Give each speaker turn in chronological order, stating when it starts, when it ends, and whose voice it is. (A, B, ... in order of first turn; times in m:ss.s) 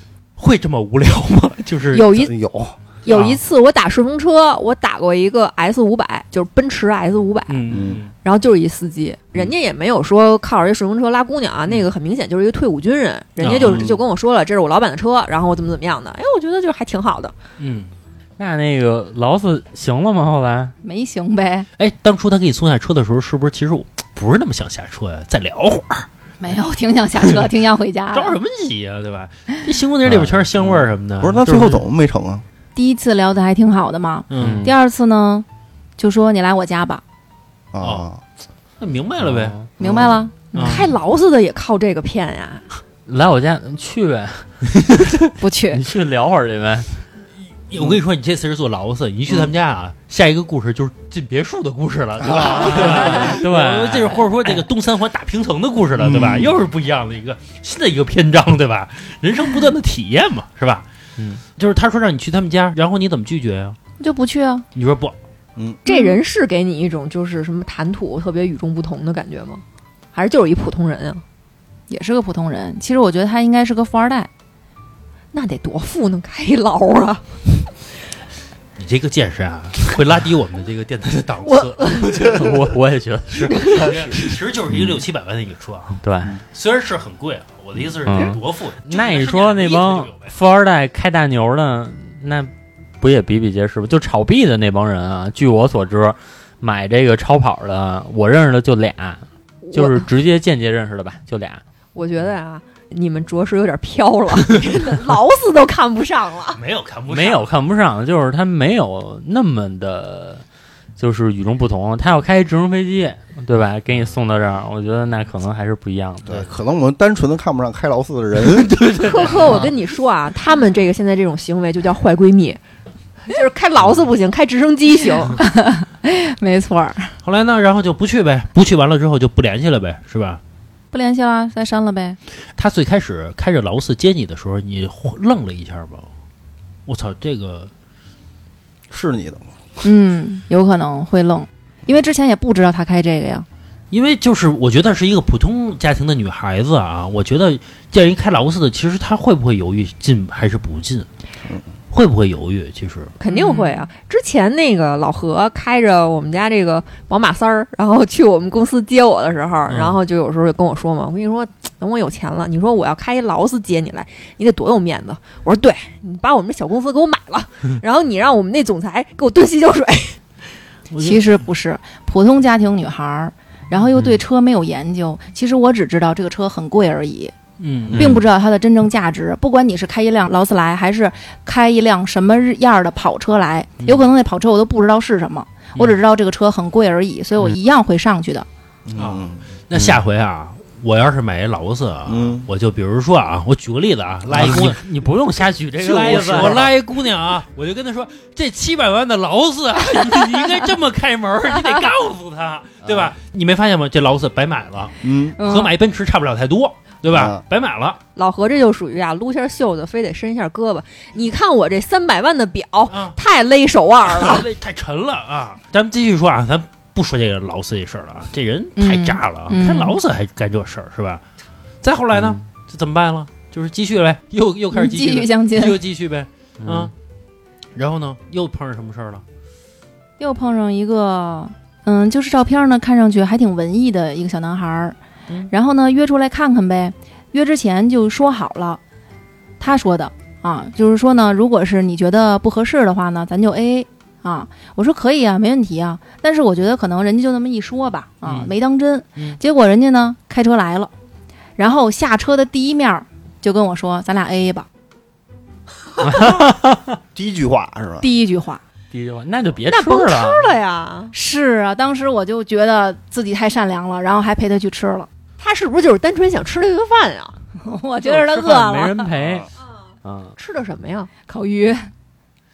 0:00.4-0:02.3 A
0:01.9-0:02.3 B
0:02.2-0:02.8 C
0:03.0-0:17.3 B
0:03.0-0:03.4 A
0:07.5-0:08.1 A
0:07.7-0:08.0 C
0:13.4-0:13.9 A
0:13.6-0:14.0 C
0:17.6-0:17.9 A
0:18.4-0:20.7 D
0:20.8-0:21.7 E
0:21.8-0:26.1 A
0:26.4-0:28.4 E
0:28.1-0:31.6 A
0:30.0-0:30.5 D
0:31.2-0:32.4 C
0:31.4-0:31.8 D
0:32.7-0:35.4 E
0:34.3-0:34.6 A
0:34.4-0:34.7 D
0:36.0-0:37.0 E
0:37.7-0:38.2 C
0:37.8-0:38.1 A
0:38.8-0:39.6 A
0:39.2-0:39.7 D
0:39.8-0:40.2 C
0:39.8-0:40.8 E
0:40.5-0:40.9 A
0:40.6-0:42.6 B
0:43.0-0:44.6 D
0:44.9-0:45.1 A
0:45.4-0:45.8 E
0:45.7-0:47.0 D
0:47.7-1:00.8 A
0:52.2-0:52.9 C
0:52.5-0:54.3 D
0:56.0-0:56.5 C
1:01.2-1:01.4 D
1:01.6-1:03.8 A
1:04.0-1:04.6 E
1:04.7-1:05.2 A
1:05.8-1:11.2 B
1:11.9-1:14.3 E
1:15.3-1:17.7 B
1:18.8-1:22.7 A
1:21.4-1:22.2 B
1:22.3-1:24.2 D
1:23.5-1:23.8 B
1:23.6-1:30.3 A
1:26.0-1:26.4 D
1:28.0-1:41.6 D
1:39.6-1:40.0 B
1:41.9-1:46.6 B
1:46.5-1:47.5 A
1:47.1-1:50.4 D
1:51.0-1:56.4 D
1:56.2-1:58.8 C
1:58.5-1:59.4 A
1:59.0-2:02.6 B
2:03.2-2:05.4 B
2:05.3-2:07.1 E
2:07.2-2:10.4 A
2:10.9-2:12.2 E
2:12.6-2:16.1 A
2:16.8-2:17.7 A
2:18.9-2:19.5 C
2:19.8-2:23.4 E
2:23.9-2:31.1 A
2:31.9-2:33.1 A
2:33.2-2:50.2 B
2:33.3-2:33.6 E
2:39.7-2:40.0 A
2:50.9-2:51.2 A
2:51.0-2:57.3 E
2:57.6-2:58.2 A
2:57.9-3:08.4 E
3:08.9-3:09.4 C
3:09.0-3:14.8 A
3:12.1-3:12.5 C
3:14.3-3:16.7 D
3:15.8-3:28.0 A
3:15.9-3:16.6 C
3:25.0-3:25.4 C
3:25.4-3:25.7 E
3:27.1-3:27.4 C
3:28.2-3:34.4 B
3:32.9-3:33.2 A
3:34.0-3:41.2 A
3:38.8-3:40.0 E
3:41.8-3:46.9 A
3:42.1-3:42.4 D
3:44.7-3:45.8 E
3:46.6-3:46.9 D
3:47.7-3:49.2 A
3:50.2-3:55.0 E
3:55.5-3:58.8 E
3:59.6-4:10.9 E
4:08.2-4:08.5 A
4:11.6-4:14.7 E
4:16.0-4:17.0 D
4:17.1-4:18.1 C
4:18.0-4:18.6 E
4:18.9-4:20.5 D
4:19.6-4:21.1 B
4:21.1-4:25.1 E
4:25.4-4:27.4 B
4:27.6-4:29.1 E
4:28.0-4:29.5 D
4:30.0-4:30.3 D
4:30.4-4:31.1 B
4:31.3-4:31.9 E